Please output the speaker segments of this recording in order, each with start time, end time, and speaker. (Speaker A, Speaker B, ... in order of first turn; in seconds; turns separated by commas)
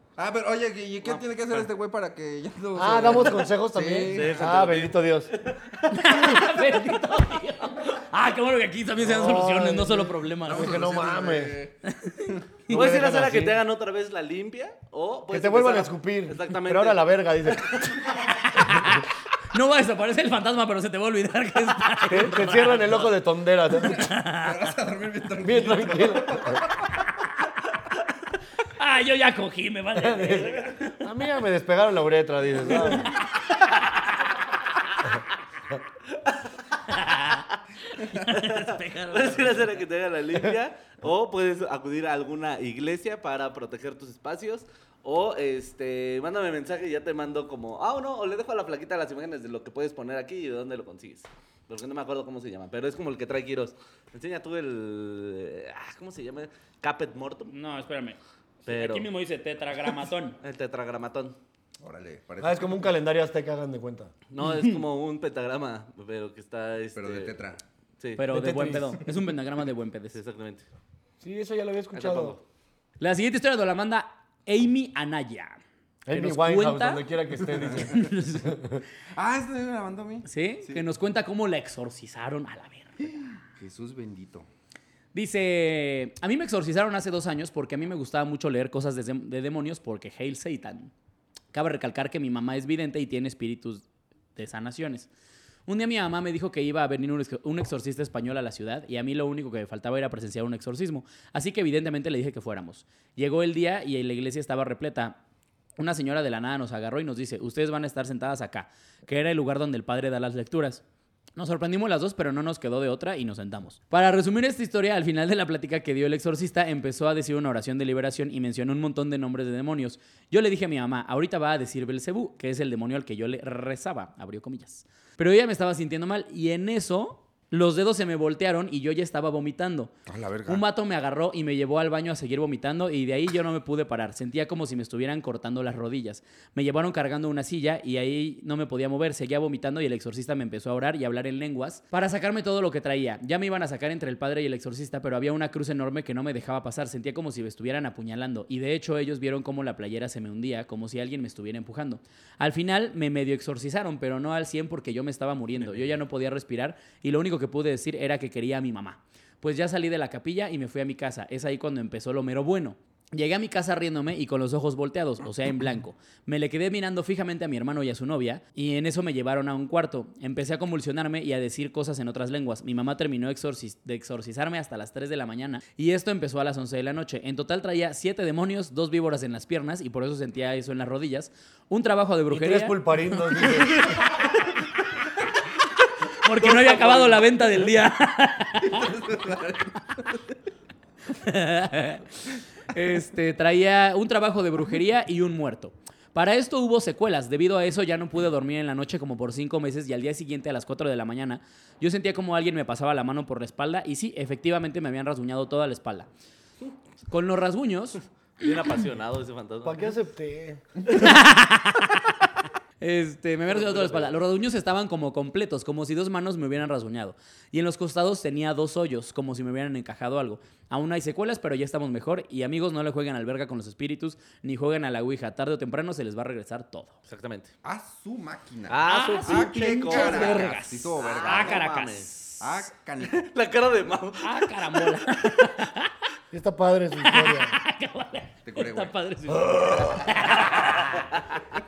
Speaker A: 0.2-4.6, Speaker B: 1.0-1.7, Speaker C: 2.8-5.3, Speaker B: 4.1-6.4, Speaker D: 5.9-10.7, Speaker C: 9.0-11.6, Speaker A: 10.4-12.5, Speaker D: 11.9-13.5, Speaker C: 12.7-13.6, Speaker B: 12.7-17.8, Speaker C: 15.3-18.0, Speaker D: 18.4-23.1, Speaker C: 22.1-24.0, Speaker A: 23.8-27.1, Speaker D: 23.8-24.5, Speaker C: 25.4-26.6, Speaker D: 28.8-30.9, Speaker C: 29.9-33.1, Speaker D: 36.9-39.8, Speaker B: 38.2-57.5, Speaker D: 57.5-60.4, Speaker B: 58.7-59.1, Speaker B: 60.4-61.4, Speaker A: 61.8-62.9, Speaker C: 62.4-64.1, Speaker B: 64.3-67.4, Speaker D: 64.4-64.8, Speaker A: 67.0-67.6, Speaker B: 68.0-68.3, Speaker D: 68.2-70.2, Speaker C: 68.3-69.0, Speaker B: 70.1-70.7, Speaker C: 71.2-72.4, Speaker B: 71.9-72.4, Speaker D: 73.0-75.6, Speaker C: 76.1-78.8, Speaker D: 76.1-77.0, Speaker A: 77.5-77.9, Speaker D: 77.9-78.6, Speaker A: 79.2-80.9, Speaker D: 80.3-83.4, Speaker A: 83.6-84.5, Speaker D: 85.1-90.9, Speaker D: 91.5-93.8, Speaker D: 94.4-95.1, Speaker D: 95.7-105.2, Speaker D: 105.8-110.8, Speaker D: 111.4-129.9, Speaker A: 130.1-130.6, Speaker D: 130.5-183.7, Speaker C: 182.3-183.9, Speaker D: 186.2-188.9, Speaker B: 186.4-187.2, Speaker A: 188.6-190.2, Speaker D: 191.1-192.0, Speaker D: 192.7-206.1, Speaker D: 207.1-208.0, Speaker B: 208.4-209.9, Speaker C: 209.6-210.6, Speaker D: 210.9-212.0, Speaker D: 212.8-227.0, Speaker B: 213.6-214.0, Speaker B: 227.1-227.5, Speaker A: 227.6-231.7, Speaker B: 228.7-232.1, Speaker D: 228.9-232.5, Speaker A: 232.4-233.3, Speaker B: 233.0-235.0, Speaker D: 234.2-235.9, Speaker C: 236.3-237.6, Speaker D: 237.0-241.1, Speaker A: 238.4-238.9, Speaker C: 239.4-240.0